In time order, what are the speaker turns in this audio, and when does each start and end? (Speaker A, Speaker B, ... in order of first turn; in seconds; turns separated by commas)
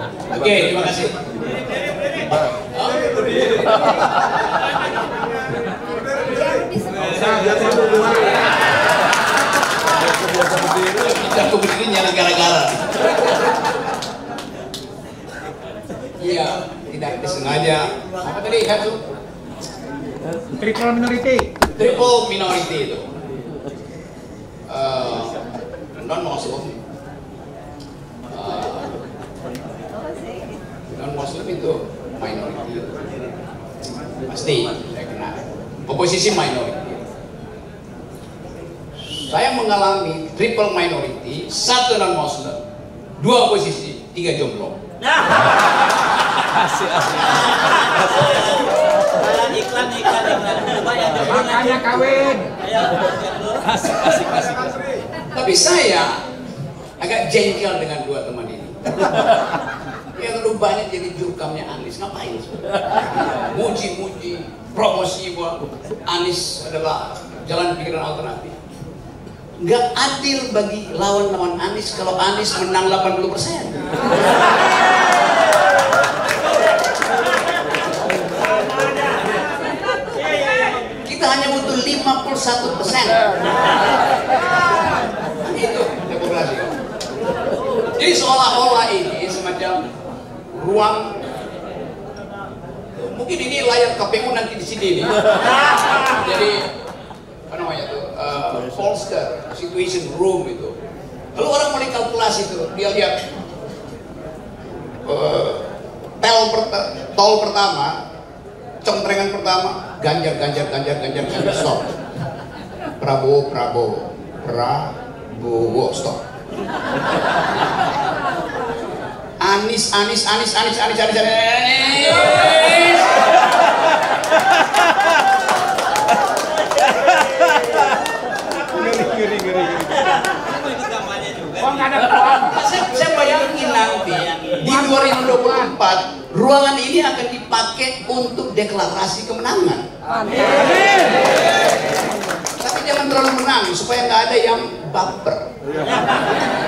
Speaker A: 0.3-1.1, Speaker A: 2.7-3.8, Speaker A: 10.9-13.1, Speaker A: 16.2-19.0, Speaker B: 20.6-21.5, Speaker A: 21.7-23.1, Speaker A: 24.7-25.4, Speaker A: 25.9-26.8, Speaker A: 28.3-29.0, Speaker A: 30.9-33.0, Speaker A: 34.3-37.0, Speaker A: 39.1-42.6, Speaker A: 43.2-44.8, Speaker C: 49.1-52.3, Speaker B: 51.3-52.5, Speaker B: 53.6-54.7, Speaker A: 55.3-56.2, Speaker A: 57.0-59.3, Speaker A: 60.1-68.5, Speaker A: 69.6-73.8, Speaker A: 81.0-83.2, Speaker A: 85.4-86.8, Speaker A: 88.0-89.8, Speaker A: 90.5-91.2, Speaker A: 93.0-95.2, Speaker A: 95.9-96.7, Speaker A: 97.5-100.8, Speaker A: 101.3-103.2, Speaker A: 105.0-105.7, Speaker A: 106.2-108.0, Speaker A: 108.8-111.9, Speaker A: 113.0-116.2, Speaker A: 119.4-123.3, Speaker B: 128.9-129.7, Speaker B: 131.6-132.1, Speaker A: 131.9-139.9, Speaker A: 142.6-145.5